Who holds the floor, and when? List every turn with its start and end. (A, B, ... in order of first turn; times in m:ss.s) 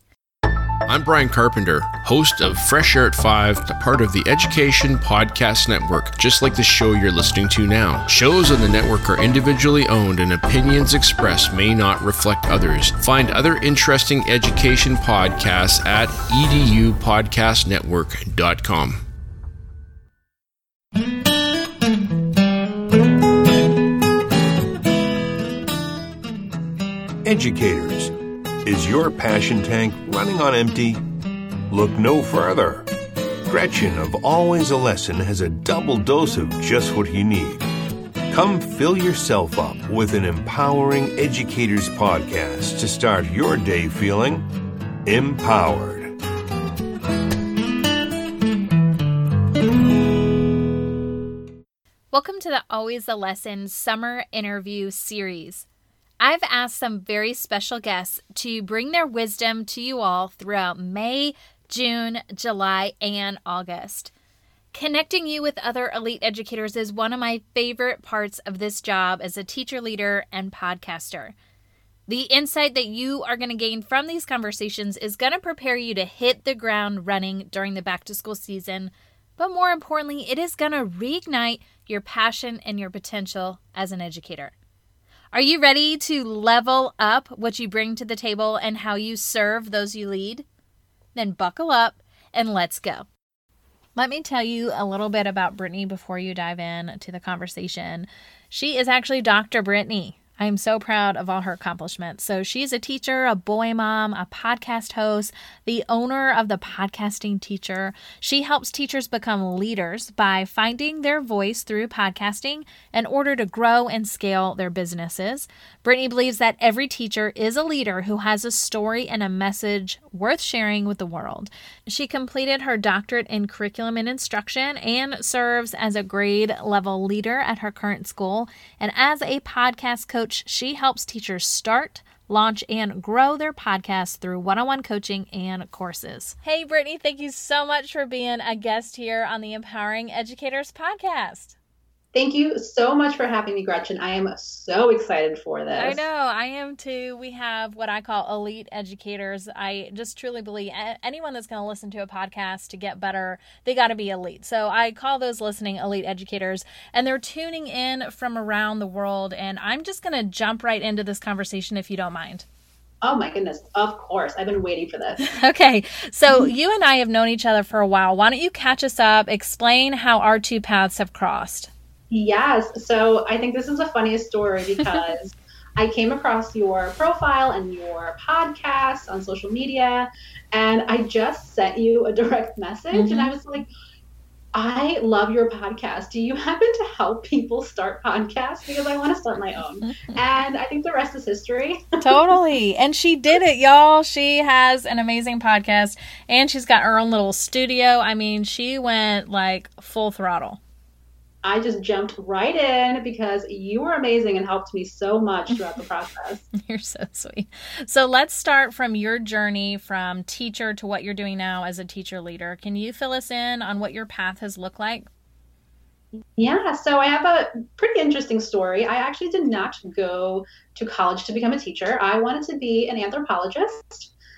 0:00.9-0:19.0 A
0:27.2-0:28.1 B
0:28.6-0:31.0 B
0:31.7-0:32.9 B
0:33.5-0:37.6 B
0:38.3-0:44.4 B
0:45.0-0:46.1 B
0:52.1-0:55.7 C
0:56.2-1:04.1 C
1:04.7-1:11.3 C
1:12.1-1:24.5 C
1:25.3-1:30.4 C
1:31.1-1:33.1 C
1:34.0-2:21.6 C
2:22.1-2:26.0 D
2:25.8-2:42.5 C
2:43.0-2:45.2 D
2:45.2-2:51.7 C
2:52.1-3:03.7 D
3:02.9-3:03.3 C
3:04.5-3:12.2 D
3:12.0-3:20.6 C
3:21.4-3:26.4 D
3:26.5-3:35.1 C
3:36.4-3:44.1 D